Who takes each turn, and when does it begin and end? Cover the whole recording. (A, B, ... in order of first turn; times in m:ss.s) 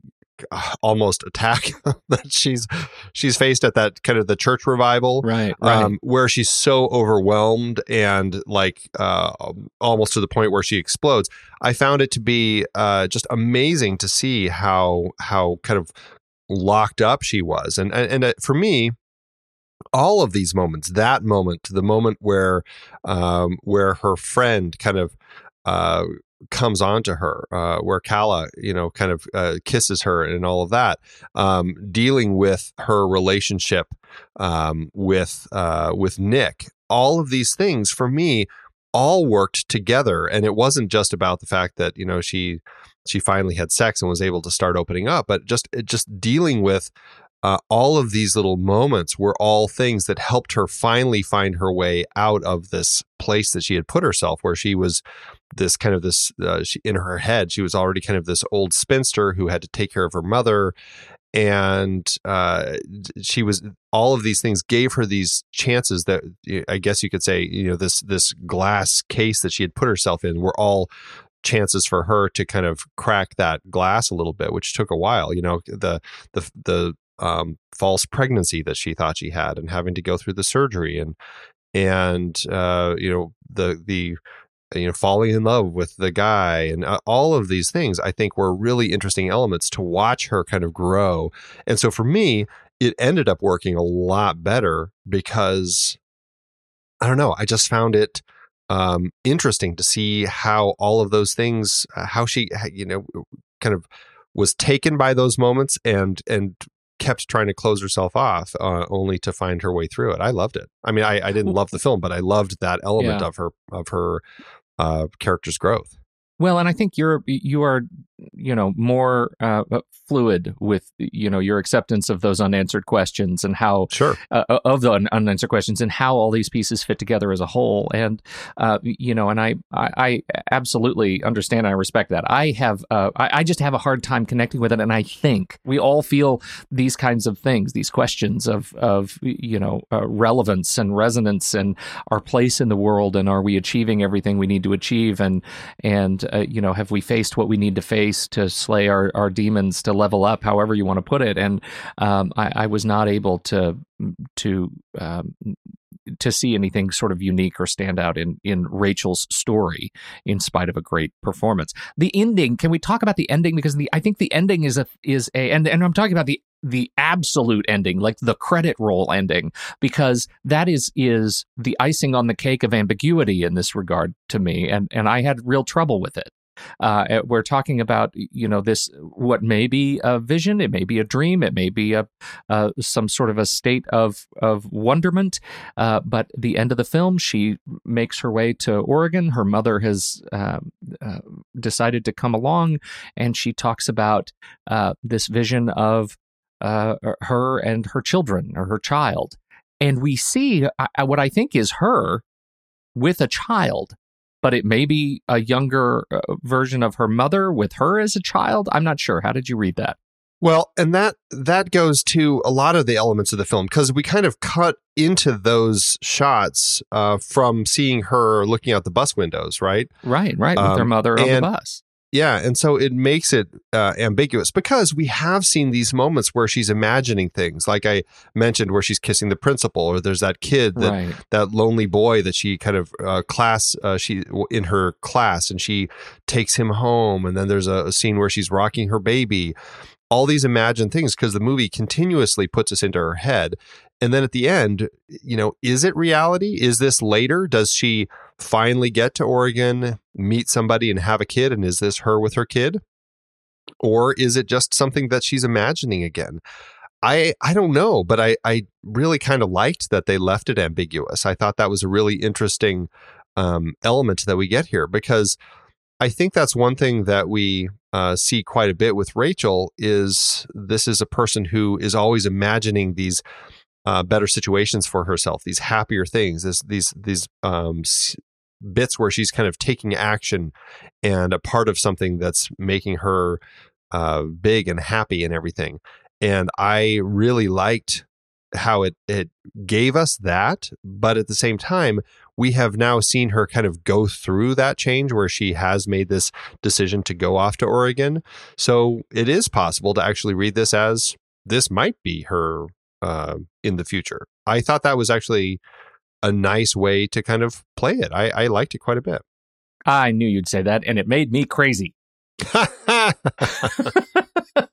0:00.4-0:15.9 A
0:05.2-0:05.9 B
0:16.5-0:18.9 A
0:19.9-0:55.0 A
0:55.5-1:00.7 A
1:01.3-1:10.9 A
1:11.4-1:21.2 A
1:21.7-1:24.2 A
1:24.7-1:36.0 A
1:37.0-1:54.2 A
1:53.0-1:53.3 B
1:54.8-1:56.0 A
1:56.4-2:35.6 B
2:03.9-2:04.2 A
2:36.2-3:22.2 B
3:23.0-3:30.0 B
3:30.4-3:39.9 A
3:40.0-3:41.8 B
3:40.6-3:41.5 A
3:42.1-3:59.5 A
3:50.8-3:51.2 B
4:00.1-4:12.8 A
4:13.8-4:16.4 A
4:17.0-4:25.4 A
4:26.0-4:33.2 A
4:33.8-4:43.4 A
4:43.9-5:05.6 A
5:06.2-5:09.2 A
5:09.9-5:11.9 B
5:12.5-5:13.9 A
5:13.4-5:14.6 B